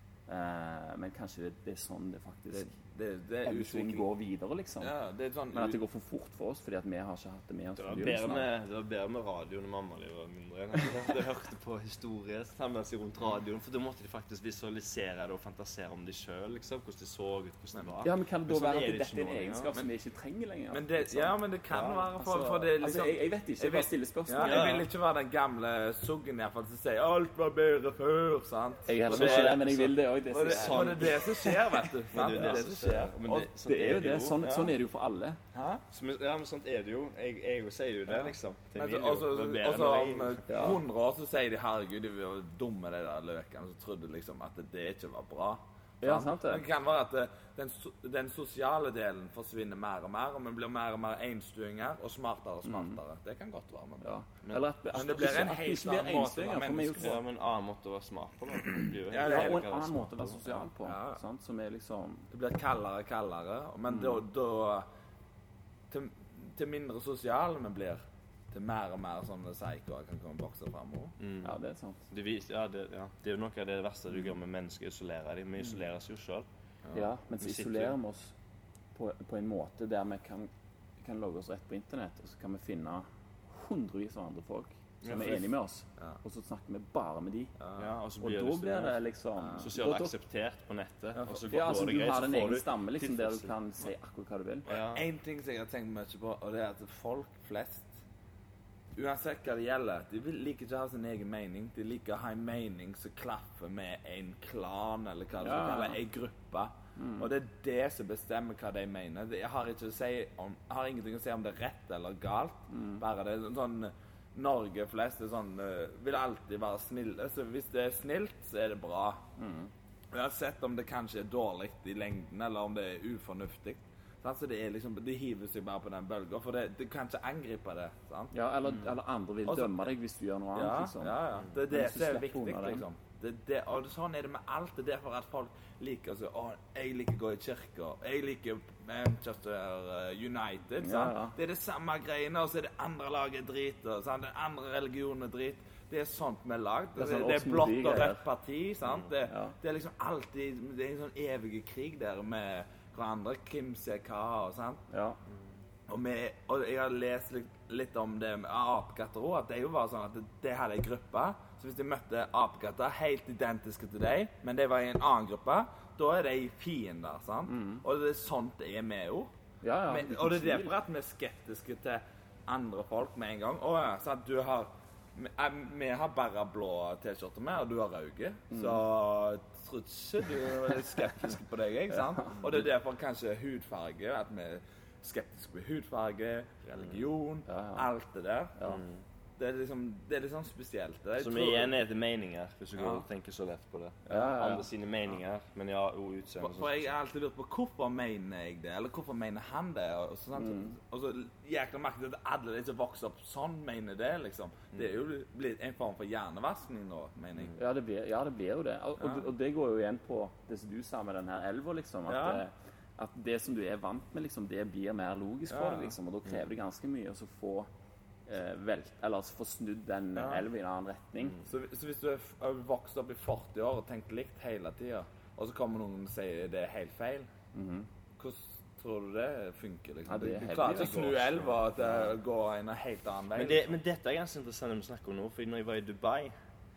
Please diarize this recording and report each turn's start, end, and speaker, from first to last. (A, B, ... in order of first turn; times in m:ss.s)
0:00.3-0:02.7 A
0:02.5-0:04.0 B
0:03.4-0:05.0 A
0:04.8-0:05.8 B
0:05.5-0:08.5 A
0:07.8-0:19.7 C
0:18.0-0:24.7 A
0:20.7-0:29.8 B
0:21.7-0:22.0 C
0:24.4-0:24.9 C
0:28.8-0:31.5 A
0:29.1-0:31.2 C
0:30.3-0:33.5 B
0:32.1-0:34.7 C
0:33.3-0:35.4 A
0:35.5-0:35.8 B
0:35.9-0:40.4 C
0:38.1-0:54.1 B
0:40.5-0:40.8 A
0:46.0-0:46.6 A
0:52.6-0:53.0 A
0:54.0-0:57.2 A
0:54.9-0:57.1 B
0:57.0-1:00.6 C
0:59.1-0:59.6 B
0:59.2-1:02.3 A
1:00.8-1:01.2 B
1:02.3-1:04.9 B
1:03.9-1:04.2 A
1:05.9-1:11.2 B
1:11.2-1:11.5 C
1:11.4-1:12.0 A
1:12.1-1:16.5 C
1:16.8-1:17.1 B
1:16.9-1:18.4 A
1:17.4-1:17.9 C
1:18.9-1:27.5 A
1:25.0-1:25.4 C
1:27.6-1:27.9 B
1:27.8-1:29.0 C
1:28.2-1:30.1 A
1:29.6-1:33.5 C
1:31.1-1:31.8 B
1:31.5-1:34.7 A
1:34.6-1:35.0 C
1:34.7-1:38.0 B
1:38.9-1:59.2 B
1:45.4-1:46.0 A
1:47.0-1:47.3 A
1:52.7-1:53.0 A
1:59.4-1:59.7 A
2:00.1-2:08.9 B
2:08.3-2:12.8 A
2:09.4-2:09.8 B
2:10.5-2:34.8 B
2:20.8-2:21.3 A
2:27.0-2:28.2 A
2:29.3-2:29.5 A
2:34.9-2:35.2 A
2:35.9-2:49.3 B
2:47.5-2:47.8 A
2:49.6-2:50.7 A
2:49.9-3:08.6 B
2:58.5-2:58.8 A
3:07.5-3:07.9 A
3:08.6-3:09.0 C
3:09.4-3:11.7 B
3:11.2-3:16.8 C
3:12.8-3:13.0 B
3:14.1-3:14.7 A
3:16.4-3:27.6 B
3:20.4-3:20.8 A
3:27.6-3:37.7 A
3:32.1-3:32.4 B
3:35.5-3:36.0 B
3:38.3-3:41.4 A
3:40.2-3:40.4 B
3:41.4-3:47.3 B
3:47.5-3:47.9 A
3:48.2-3:53.7 B
3:50.1-3:51.2 A
3:51.0-3:51.9 C
3:53.4-3:56.3 C